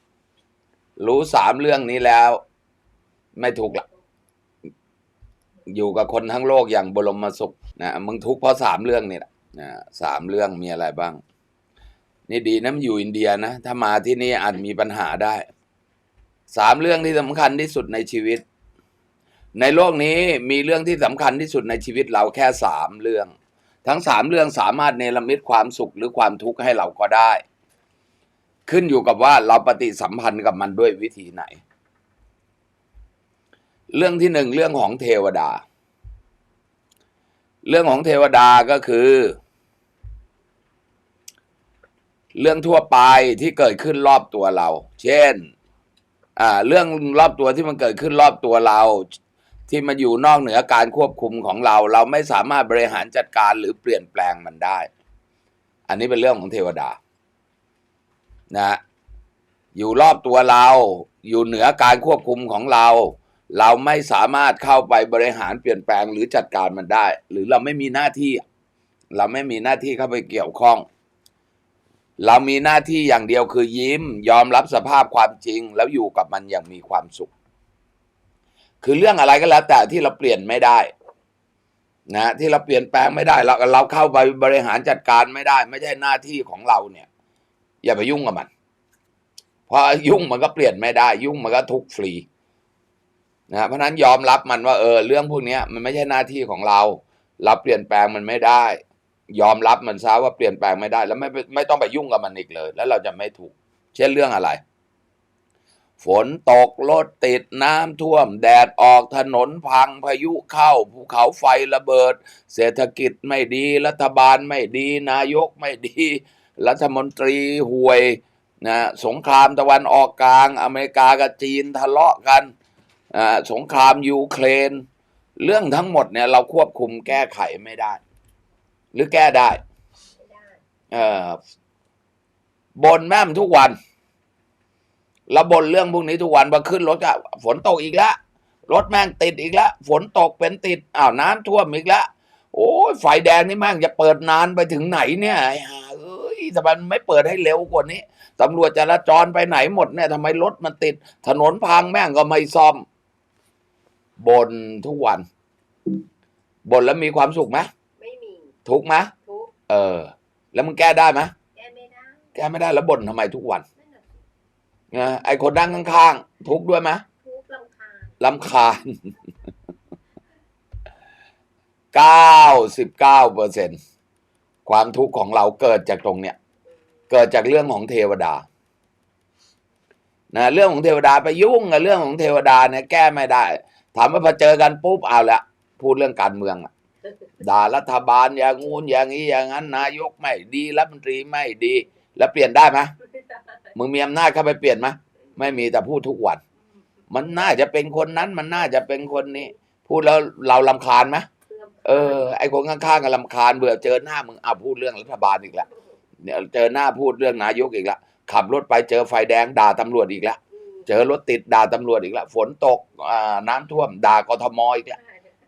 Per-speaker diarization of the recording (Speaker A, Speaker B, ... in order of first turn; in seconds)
Speaker A: 1.0-2.4, 3.4-3.8, 5.7-11.2, 12.3-15.4, 16.5-18.4, 19.6-23.3, 23.8-27.4, 28.7-31.6, 33.9-35.6, 37.6-39.4, 42.3-45.5, 46.4-49.1, 49.7-54.9, 55.9-57.0, 58.5-58.8, 59.7-68.4, 69.1-70.8, 72.2-77.3, 78.8-80.9, 82.1-87.1, 87.8-88.5, 89.7-92.2, 93.5-98.8, 99.3-104.6, 106.0-122.5, 123.1-124.8, 125.4-128.0, 128.9-129.6, 130.9-131.4, 132.8-133.7, 135.3-138.2, 138.7-152.8, 154.2-155.2, 156.7-157.7, 158.6-159.1, 159.7-161.3, 162.3-163.6, 164.9-167.0, 168.2-169.1, 171.9-173.8, 174.7-176.3, 177.1-178.4, 180.3-186.7, 187.4-192.9, 193.7-196.4, 197.1-201.3, 201.8-205.7, 206.2-215.0
Speaker B: 130.1-130.6, 158.0-158.6, 159.2-159.5, 161.5-162.3, 163.8-164.2, 167.2-168.6, 201.5-202.3, 210.5-210.8, 214.9-215.3